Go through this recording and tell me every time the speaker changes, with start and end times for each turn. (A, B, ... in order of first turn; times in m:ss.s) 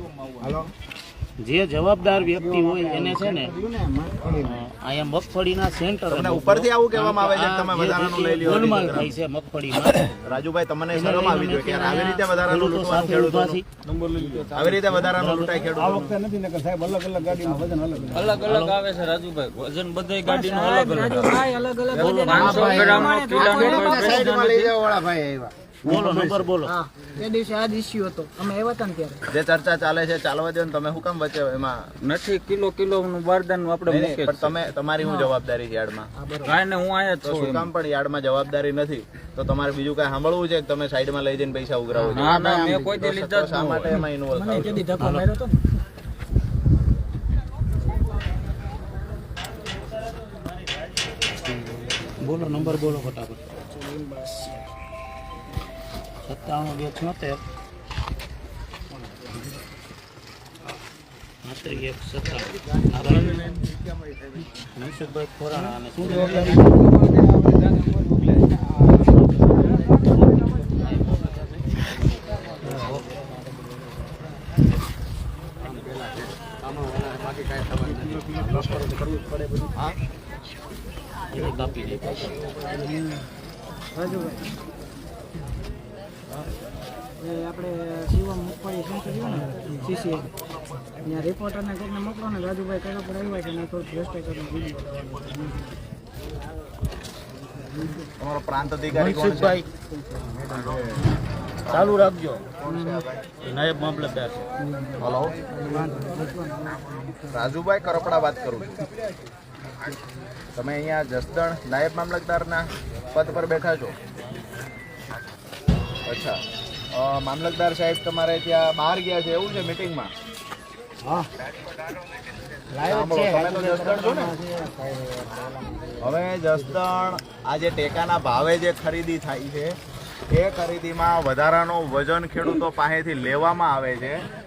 0:00.4-0:00.7 A
0:01.4-0:03.5 B
0:02.6-0:04.6 A
0:04.4-0:10.2 B
0:06.1-0:09.1 C
0:10.2-0:13.6 C
0:10.9-0:13.6 B
0:14.5-0:16.1 C
0:15.2-0:15.7 B
0:15.7-0:18.5 D
0:18.1-0:24.7 E
0:18.2-0:18.8 B
0:20.2-0:24.2 F
0:21.9-0:22.6 B
0:22.3-0:25.5 A
0:25.8-0:26.7 B
0:25.9-0:26.4 D
0:26.6-0:29.2 F
0:29.3-0:31.9 C
0:32.0-0:34.5 E
0:33.8-0:36.1 C
0:35.0-0:35.3 F
0:36.2-0:36.6 F
0:36.4-0:37.7 E
0:37.2-0:44.9 C
0:41.9-0:44.0 E
0:43.9-0:45.6 F
0:45.0-0:45.3 B
0:52.2-0:53.6 B
0:56.2-0:57.4 B
1:01.4-1:03.5 B
1:04.8-1:06.7 B
1:12.6-1:13.0 B
1:17.9-1:19.7 D
1:21.3-1:22.4 B
1:23.9-1:24.5 F
1:27.2-1:30.3 F
1:31.0-1:35.6 F
1:38.2-1:39.6 C
1:38.9-1:39.6 B
1:41.6-1:43.4 C
1:41.7-1:42.5 B
1:42.6-1:43.0 F
1:43.4-1:44.4 B
1:44.6-1:47.4 F
1:45.0-1:45.4 C
1:47.3-1:48.8 C
1:50.5-1:53.9 C
1:56.0-1:56.4 C
1:56.9-2:00.1 C
2:02.7-2:06.2 A
2:02.8-2:04.3 C
2:06.0-2:09.8 C
2:10.3-2:14.2 C